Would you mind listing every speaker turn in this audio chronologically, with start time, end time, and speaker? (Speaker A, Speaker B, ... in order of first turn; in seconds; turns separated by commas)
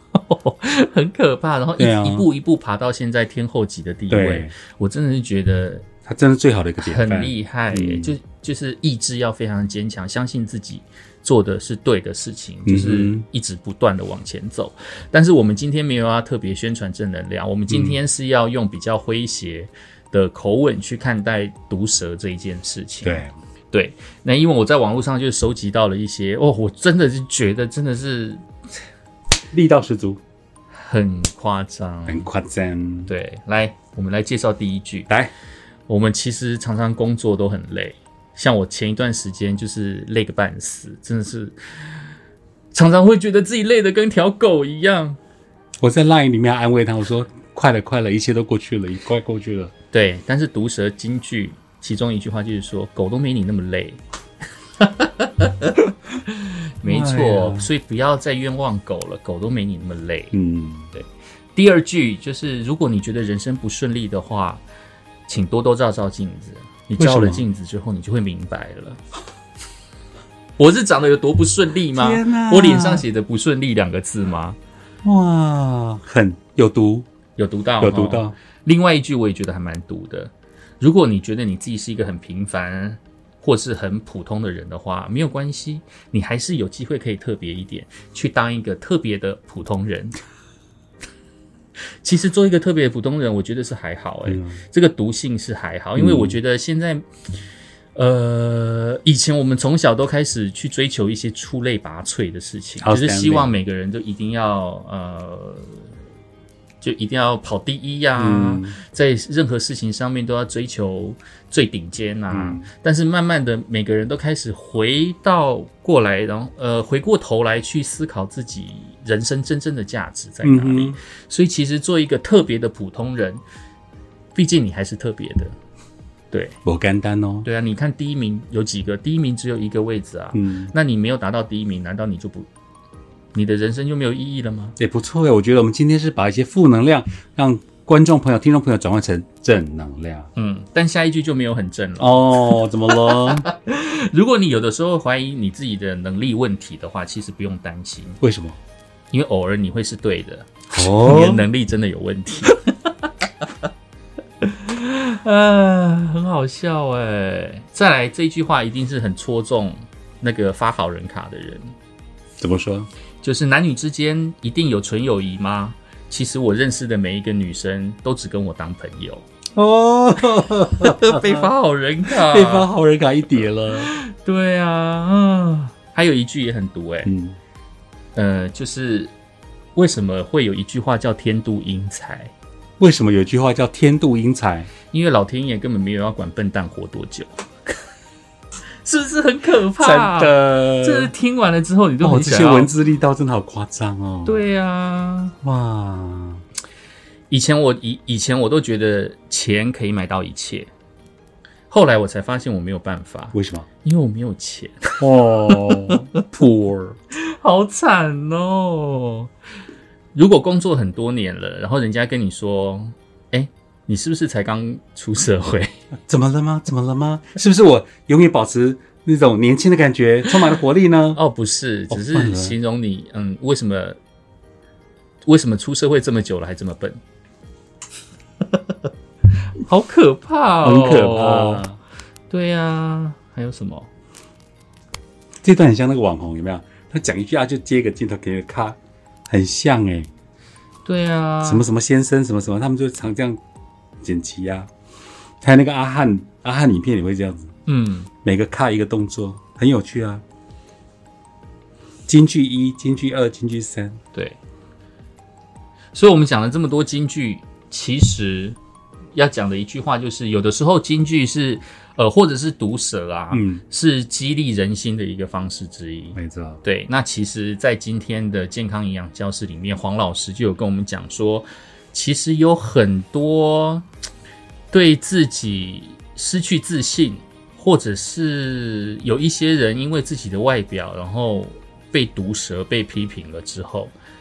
Speaker A: 0.1-5.8, Speaker B: 1.8-2.3, Speaker B: 4.1-4.5, Speaker B: 6.0-8.1, Speaker A: 6.8-28.4, Speaker B: 12.7-13.2, Speaker B: 17.7-18.0, Speaker B: 23.0-23.3, Speaker B: 29.5-30.2, Speaker A: 30.7-32.3, Speaker B: 32.1-33.1, Speaker A: 33.1-35.1, Speaker A: 35.9-41.6, Speaker A: 42.7-45.2, Speaker B: 45.8-49.7, Speaker A: 49.9-54.0, Speaker A: 54.8-60.3, Speaker B: 56.8-57.7, Speaker B: 60.3-60.9, Speaker A: 60.9-64.6, Speaker A: 65.3-69.0, Speaker B: 67.0-67.4, Speaker A: 70.6-74.6, Speaker B: 71.9-73.0, Speaker B: 75.0-77.0, Speaker A: 77.4-90.2, Speaker B: 77.8-78.3, Speaker A: 92.0-97.0, Speaker B: 94.3-94.5, Speaker B: 96.0-96.4, Speaker A: 97.9-105.8, Speaker B: 102.8-103.6, Speaker A: 106.8-123.4, Speaker B: 108.2-108.8, Speaker B: 112.3-112.7, Speaker B: 120.4-121.0, Speaker A: 124.3-125.5, Speaker B: 126.6-127.5, Speaker A: 127.4-132.5, Speaker B: 130.3-130.7, Speaker A: 133.3-134.7, Speaker B: 134.8-140.3, Speaker A: 140.3-148.2, Speaker B: 142.0-143.4, Speaker B: 148.2-148.6, Speaker A: 149.1-152.9, Speaker B: 150.7-151.5, Speaker A: 154.4-161.7, Speaker B: 162.4-162.9, Speaker A: 163.2-169.2, Speaker B: 169.5-171.5, Speaker A: 170.8-172.7, Speaker B: 172.1-173.9, Speaker A: 173.7-177.1, Speaker B: 177.0-177.4, Speaker A: 178.1-179.1, Speaker A: 179.8-182.3, Speaker B: 182.8-184.7, Speaker A: 184.9-187.8, Speaker A: 188.8-192.7, Speaker B: 189.8-191.1, Speaker B: 192.0-194.4, Speaker A: 194.2-195.3, Speaker B: 195.4-196.4, Speaker A: 197.3-200.7, Speaker A: 201.7-206.2, Speaker B: 203.3-203.7, Speaker B: 205.0-206.9, Speaker A: 207.1-209.3, Speaker A: 210.1-215.7, Speaker B: 216.1-221.2, Speaker A: 221.2-224.0, Speaker B: 221.9-222.6, Speaker A: 225.2-227.0, Speaker A: 229.6-231.6, Speaker B: 230.6-231.8, Speaker A: 232.3-233.9, Speaker B: 235.4-238.8, Speaker B: 239.3-240.1, Speaker A: 240.8-241.7, Speaker B: 241.4-243.4, Speaker B: 244.0-244.7, Speaker B: 245.4-247.5, Speaker A: 247.7-248.1, Speaker B: 248.2-250.2, Speaker B: 252.1-254.0, Speaker A: 255.9-258.6, Speaker A: 259.1-273.8, Speaker B: 263.3-263.6, Speaker B: 266.1-266.6, Speaker A: 274.7-283.9